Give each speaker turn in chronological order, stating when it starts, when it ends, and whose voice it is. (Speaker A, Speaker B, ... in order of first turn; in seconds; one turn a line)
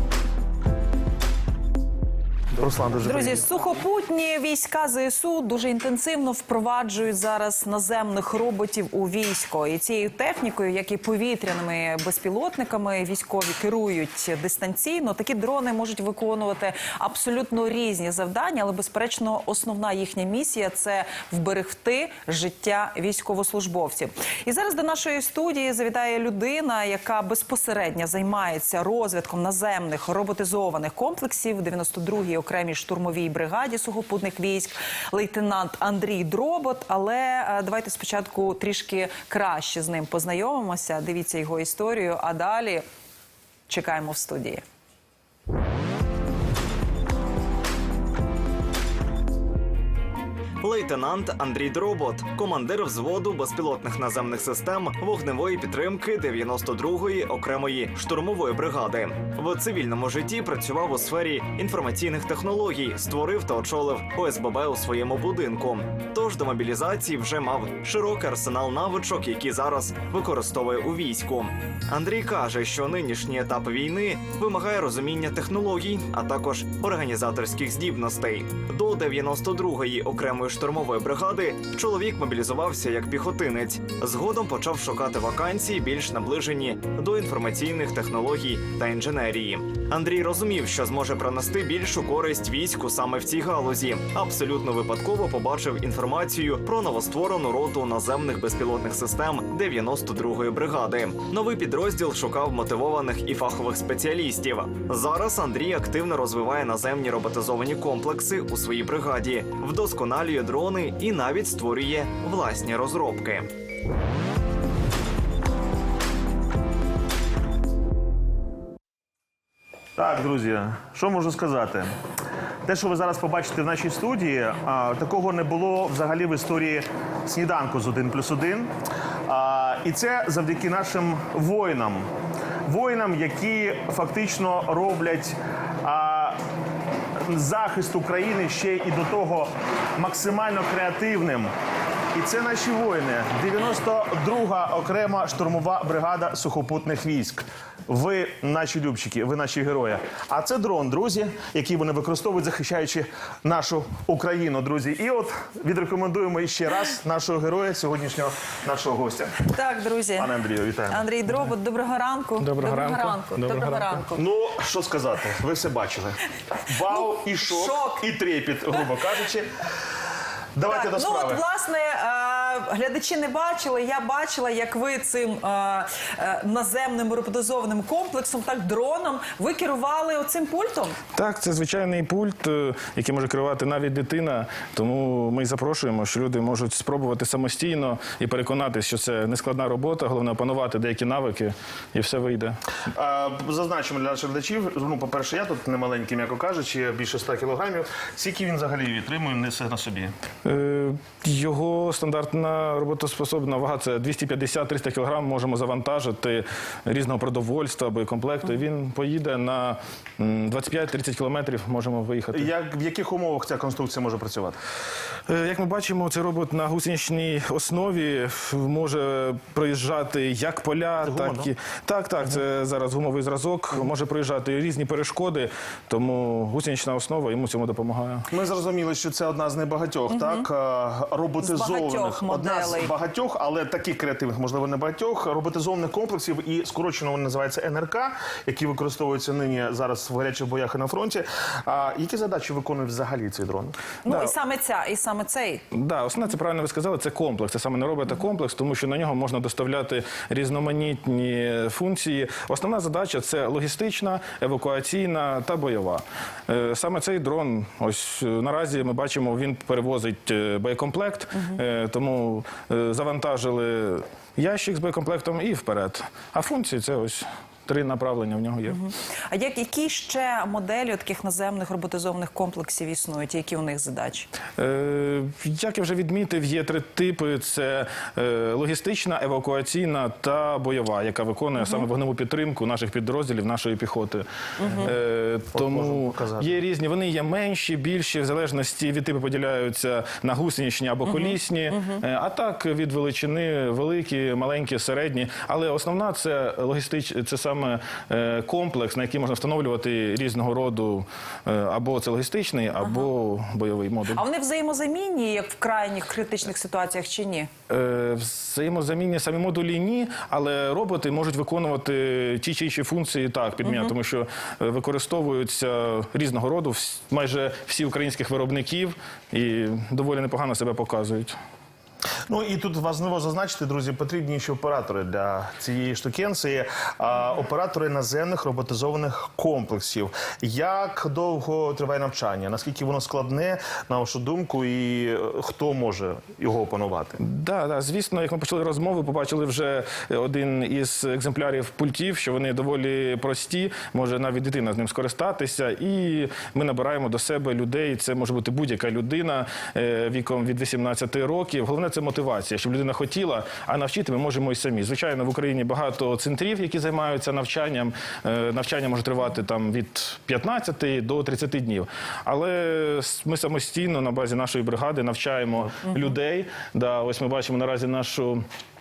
Speaker A: 2.5-3.4
Speaker B: 3.0-42.8
Speaker B: 43.7-44.6
Speaker C: 50.6-113.5
Speaker A: 120.0-121.9
Speaker A: 122.7-128.7
Speaker A: 129.3-132.1
Speaker A: 132.7-136.4
Speaker A: 137.2-141.5
Speaker A: 142.1-159.4
Speaker B: 159.5-160.3
Speaker A: 160.2-161.0
Speaker B: 160.9-164.2
Speaker D: 162.4-164.0
Speaker A: 164.1-169.5
Speaker B: 166.9-168.0
Speaker A: 170.5-171.4
Speaker B: 170.7-181.0
Speaker D: 181.1-192.6
Speaker A: 192.9-200.1
Speaker D: 200.4-212.5
Speaker A: 212.3-214.6
Speaker D: 215.3-228.3
Speaker A: 221.0-221.5
Speaker A: 228.3-243.8
Speaker B: 230.1-230.5
Speaker B: 231.4-232.9
Speaker B: 244.0-245.6
Speaker D: 244.1-244.3
Speaker D: 245.7-268.8
Speaker B: 268.7-274.3
Speaker D: 274.6-284.2
Speaker B: 284.6-284.9
Speaker A: 284.6-284.9
Speaker D: 284.8-304.2
Speaker A: 285.5-286.6
Speaker B: 302.8-303.1
Speaker B: 304.1-307.5
Speaker D: 307.7-321.4
Speaker A: 322.3-337.2
Speaker D: 337.2-368.4